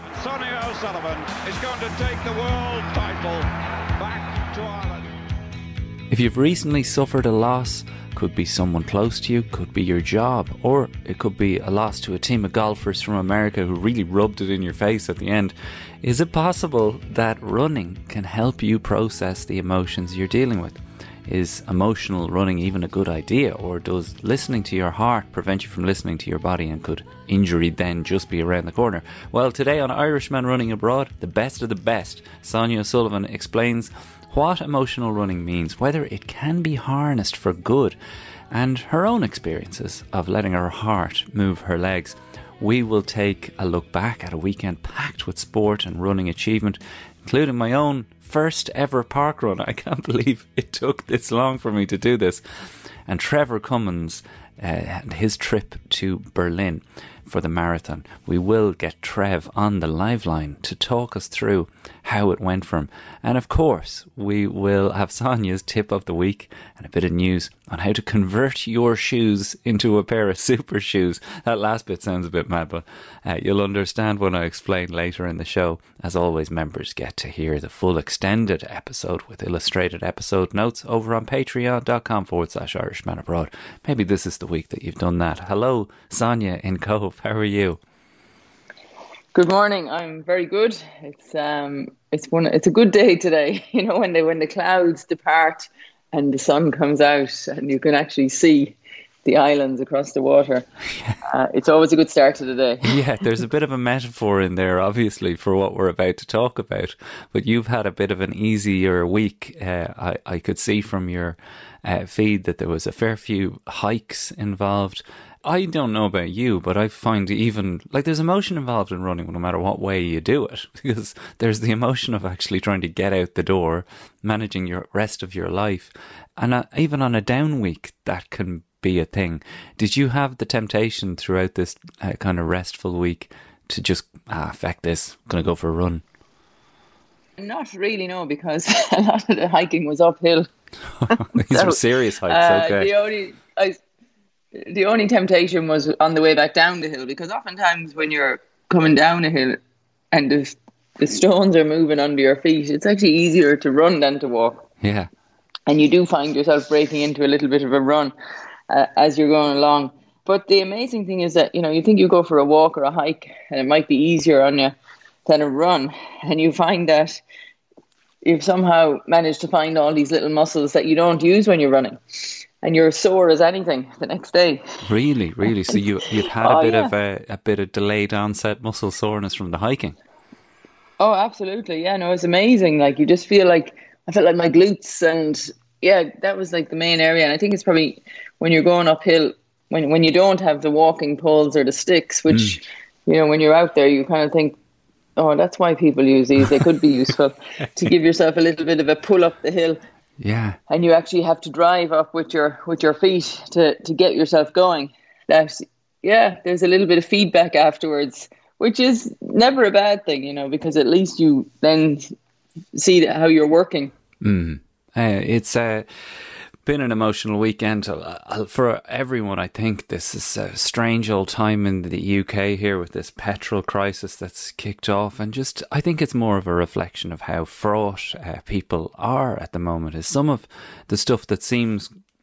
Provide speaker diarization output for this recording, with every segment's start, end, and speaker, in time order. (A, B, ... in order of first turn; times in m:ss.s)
0:00.1-0:05.1 A
0:06.1-0:38.0 B
0:38.5-0:52.4 B
0:53.1-1:27.8 B
1:29.3-1:40.7 C
1:41.2-1:42.9 C
1:42.8-2:16.0 B
2:17.4-2:20.5 C
2:21.0-2:22.9 B
2:21.1-2:23.8 C
2:24.5-2:29.6 C
2:30.1-2:34.6 C
2:34.8-2:35.1 B
2:35.7-2:38.1 C
2:38.7-2:47.2 C
2:48.2-2:54.6 C
2:54.8-3:00.0 B
2:56.4-2:56.9 C
3:01.0-3:14.6 C
3:12.3-3:12.6 B
3:15.2-3:19.8 C
3:20.2-3:20.6 B
3:20.7-3:32.1 C
3:32.7-3:33.9 C
3:34.2-3:51.9 B